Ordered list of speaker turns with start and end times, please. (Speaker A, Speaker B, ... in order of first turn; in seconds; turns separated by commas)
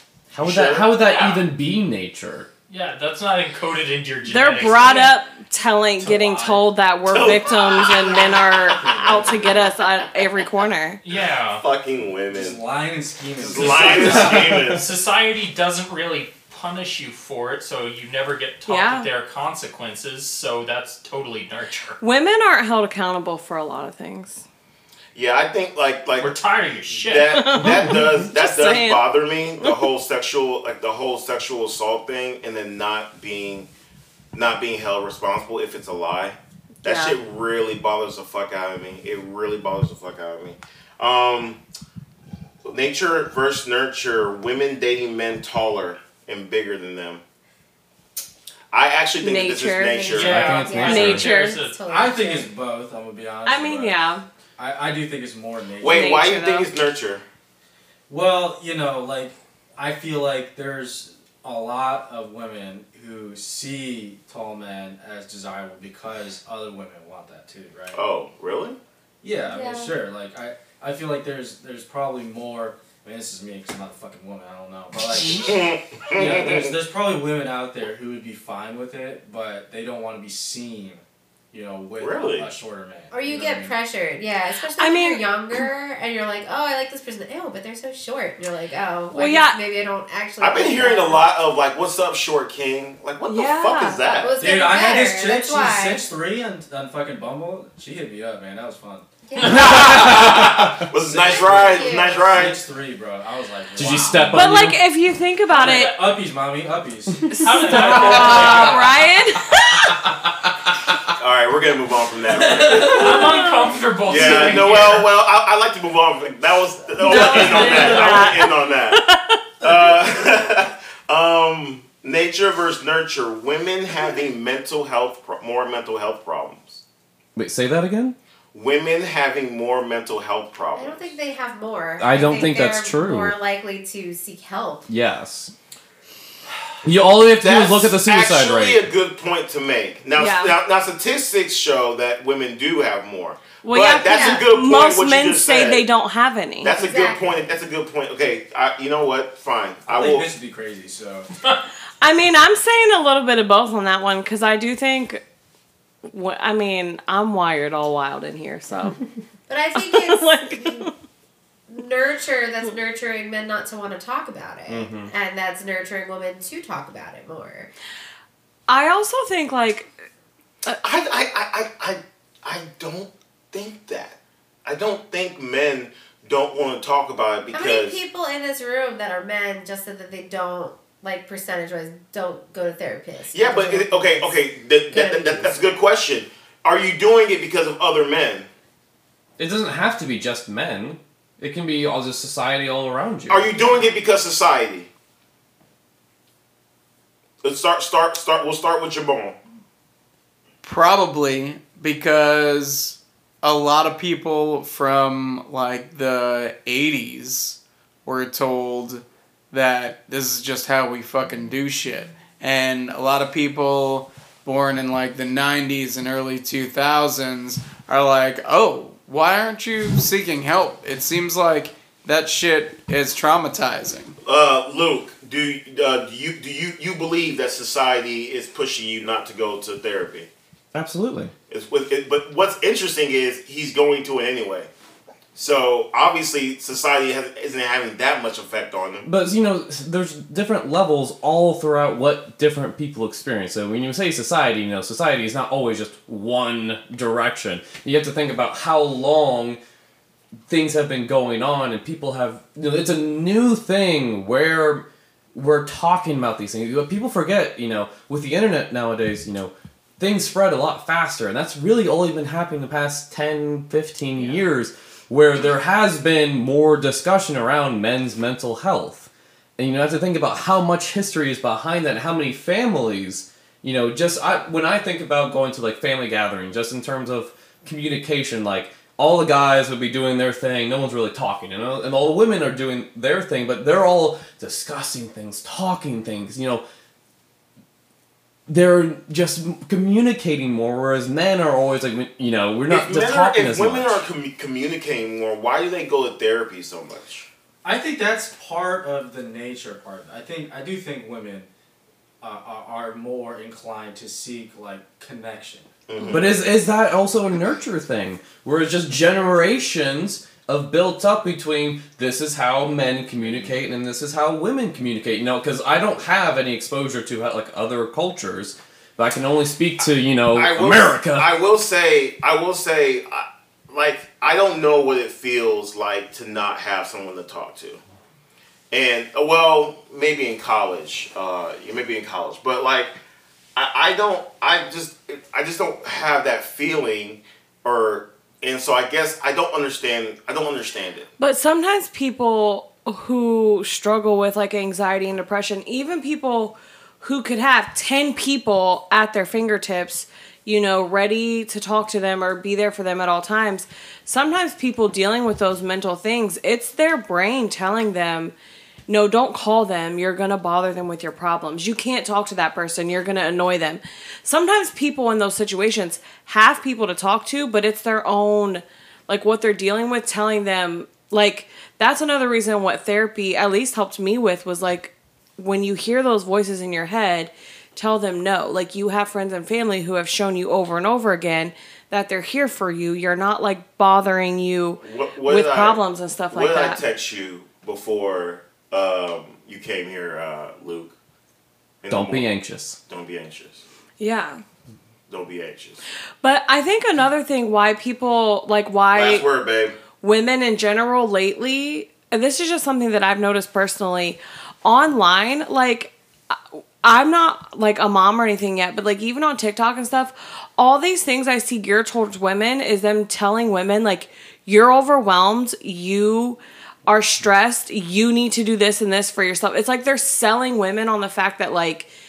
Speaker A: 0.3-2.5, Speaker B: 0.4-0.9, Speaker C: 0.9-1.5, Speaker C: 2.7-5.2, Speaker D: 4.3-11.0, Speaker E: 6.0-6.6, Speaker B: 7.1-8.4, Speaker E: 8.2-9.8, Speaker C: 11.0-11.6, Speaker B: 11.1-12.6, Speaker E: 12.3-14.7, Speaker B: 13.4-14.8, Speaker C: 13.6-22.0, Speaker A: 13.6-14.8, Speaker D: 18.6-19.1, Speaker D: 22.0-24.4, Speaker B: 25.1-26.4, Speaker C: 26.2-27.5, Speaker B: 26.9-33.7, Speaker D: 27.3-29.1, Speaker A: 27.7-28.2, Speaker B: 34.3-41.6, Speaker D: 36.8-37.2, Speaker B: 42.6-47.2, Speaker B: 48.7-50.4, Speaker D: 49.2-50.1, Speaker F: 49.9-52.5, Speaker C: 50.1-51.8, Speaker A: 50.1-51.3, Speaker D: 50.7-51.7, Speaker E: 51.9-54.0, Speaker D: 53.4-54.2, Speaker E: 54.6-56.0, Speaker B: 55.8-57.2, Speaker D: 55.9-56.7, Speaker E: 58.1-68.0, Speaker B: 67.9-68.8, Speaker E: 69.2-81.0, Speaker D: 69.5-69.9, Speaker B: 75.3-76.8, Speaker E: 81.5-83.8, Speaker B: 82.0-82.5, Speaker F: 83.1-91.2, Speaker D: 84.8-85.2, Speaker D: 89.1-89.6, Speaker B: 90.4-94.4, Speaker D: 93.2-94.0, Speaker F: 94.1-96.0, Speaker E: 94.4-99.1, Speaker F: 99.3-100.2, Speaker B: 99.5-102.6, Speaker A: 99.7-100.8, Speaker E: 99.7-100.2, Speaker E: 100.8-104.5, Speaker F: 101.2-102.2, Speaker A: 103.7-104.8, Speaker D: 104.3-106.0, Speaker E: 105.5-108.5, Speaker C: 105.6-105.9, Speaker D: 107.3-109.9, Speaker C: 107.4-108.9, Speaker A: 107.9-108.6, Speaker B: 111.2-113.4, Speaker E: 112.3-113.2, Speaker C: 112.8-115.1, Speaker D: 113.1-113.7, Speaker B: 114.0-119.0, Speaker D: 114.2-114.5, Speaker E: 114.3-114.7, Speaker D: 117.0-119.4, Speaker E: 117.0-118.2, Speaker C: 117.1-118.2, Speaker B: 119.6-126.8, Speaker A: 127.3-128.2, Speaker B: 128.5-131.1, Speaker F: 130.7-134.8, Speaker A: 132.0-133.3, Speaker A: 134.9-135.5, Speaker A: 136.8-138.8, Speaker B: 137.3-145.8, Speaker D: 140.2-140.6, Speaker D: 143.6-146.7, Speaker F: 144.1-144.4, Speaker B: 146.6-150.3, Speaker F: 146.7-147.5, Speaker E: 149.8-151.3, Speaker D: 152.0-155.2, Speaker D: 156.1-159.0, Speaker F: 159.5-160.9, Speaker D: 159.7-160.9, Speaker F: 161.7-167.7, Speaker A: 164.7-165.1, Speaker D: 168.7-169.9, Speaker B: 170.8-178.0, Speaker F: 177.5-184.3, Speaker B: 183.3-188.5, Speaker F: 184.9-185.6, Speaker A: 189.4-193.5, Speaker B: 193.3-194.9, Speaker B: 197.4-199.4, Speaker G: 200.6-224.2, Speaker B: 224.2-230.3, Speaker A: 230.7-231.3, Speaker B: 231.5-234.7, Speaker B: 235.3-239.1, Speaker A: 239.0-249.6, Speaker A: 250.5-286.6, Speaker A: 288.5-294.0, Speaker B: 292.7-297.3, Speaker E: 297.6-301.5, Speaker E: 302.2-305.7, Speaker B: 305.9-306.5, Speaker A: 306.1-321.3, Speaker E: 312.7-313.6, Speaker B: 320.3-327.8, Speaker B: 328.7-332.9, Speaker B: 333.6-341.1, Speaker D: 341.2-358.3, Speaker D: 358.9-386.8, Speaker B: 384.8-390.9, Speaker B: 391.8-392.3, Speaker A: 391.9-392.8, Speaker B: 392.9-393.6, Speaker D: 394.0-394.4, Speaker B: 395.1-395.8, Speaker D: 396.2-399.2, Speaker B: 398.9-399.8, Speaker D: 400.0-421.9